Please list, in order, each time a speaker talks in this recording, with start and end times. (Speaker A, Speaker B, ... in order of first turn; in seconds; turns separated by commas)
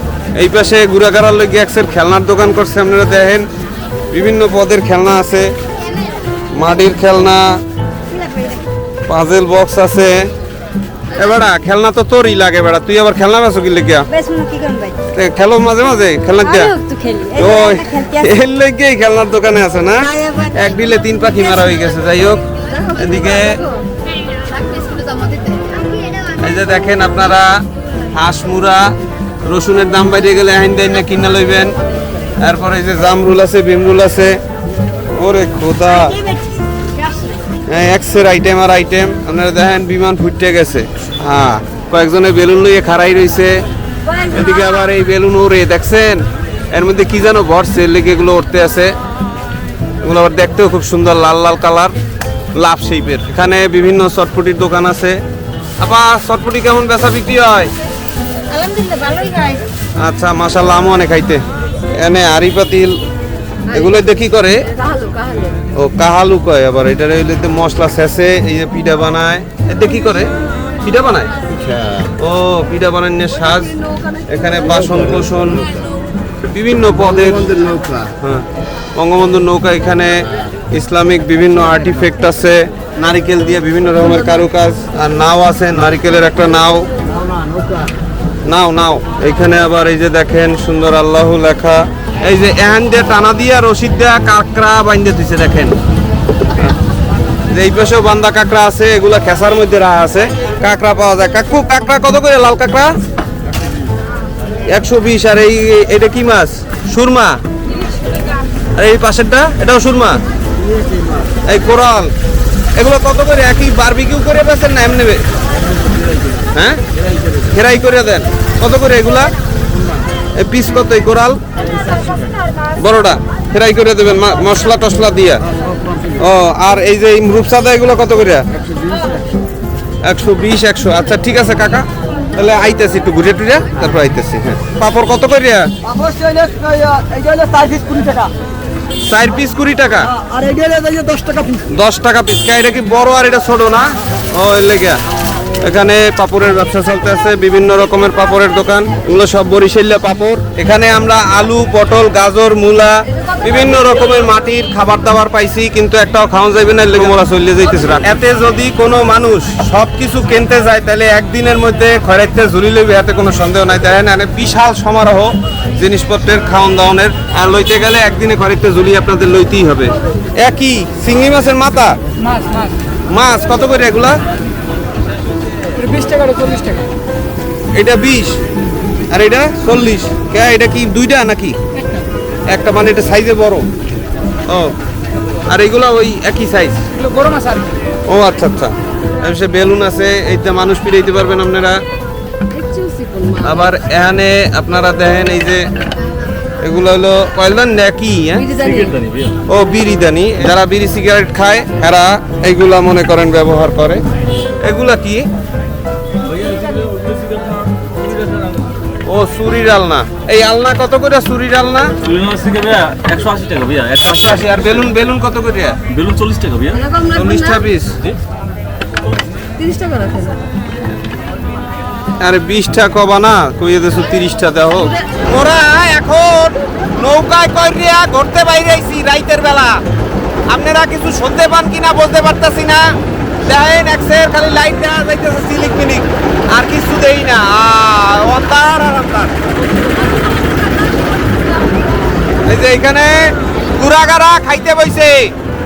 Speaker A: 0.4-3.4, Speaker A: 4.1-5.5, Speaker A: 6.5-7.4, Speaker B: 8.1-8.6, Speaker A: 9.1-10.2, Speaker A: 11.2-14.1, Speaker B: 14.1-15.0, Speaker A: 15.1-16.8, Speaker B: 16.4-18.3, Speaker A: 17.4-23.6, Speaker B: 20.0-20.7, Speaker B: 22.8-23.4, Speaker B: 24.6-26.1, Speaker A: 26.3-27.5, Speaker A: 28.1-28.9, Speaker A: 29.5-31.7, Speaker A: 32.4-34.4, Speaker A: 35.2-36.2, Speaker B: 37.0-37.3, Speaker A: 37.7-43.5, Speaker A: 44.3-46.2, Speaker A: 46.7-48.9, Speaker A: 50.0-51.9, Speaker A: 52.6-55.2, Speaker A: 55.8-57.7, Speaker B: 58.5-59.6, Speaker A: 60.0-61.4, Speaker A: 62.0-63.0, Speaker A: 63.7-64.7, Speaker B: 64.8-65.6, Speaker A: 65.7-70.3, Speaker A: 70.8-71.3, Speaker A: 72.0-73.7, Speaker A: 74.3-75.7, Speaker A: 76.5-78.4, Speaker A: 79.0-86.9, Speaker A: 88.5-95.7, Speaker A: 97.5-102.9, Speaker A: 104.7-107.4, Speaker A: 108.8-110.2, Speaker A: 111.5-112.1, Speaker A: 112.8-115.2, Speaker A: 116.5-116.8, Speaker A: 117.4-119.3, Speaker A: 120.4-121.4, Speaker A: 122.8-125.4, Speaker A: 126.2-128.4, Speaker A: 130.1-135.7, Speaker B: 135.9-138.3, Speaker A: 139.1-140.1, Speaker B: 140.3-141.5, Speaker A: 141.7-145.0, Speaker A: 145.6-171.9, Speaker A: 173.1-174.2, Speaker B: 175.8-176.9, Speaker A: 177.8-178.4, Speaker A: 179.1-181.6, Speaker A: 182.5-183.7, Speaker A: 185.5-186.8, Speaker B: 187.1-187.7, Speaker A: 188.1-191.8, Speaker B: 192.5-193.5, Speaker A: 193.4-195.6, Speaker A: 196.6-198.5, Speaker B: 198.5-198.9, Speaker C: 198.6-199.4, Speaker A: 199.5-204.0, Speaker A: 204.6-205.2, Speaker C: 206.3-208.6, Speaker A: 209.1-211.9, Speaker C: 212.0-214.7, Speaker A: 214.0-215.8, Speaker C: 215.9-216.9, Speaker B: 216.8-217.6, Speaker A: 217.1-218.0, Speaker B: 219.6-220.4, Speaker A: 222.2-229.8, Speaker A: 230.5-232.9, Speaker A: 233.4-239.3, Speaker A: 242.5-245.3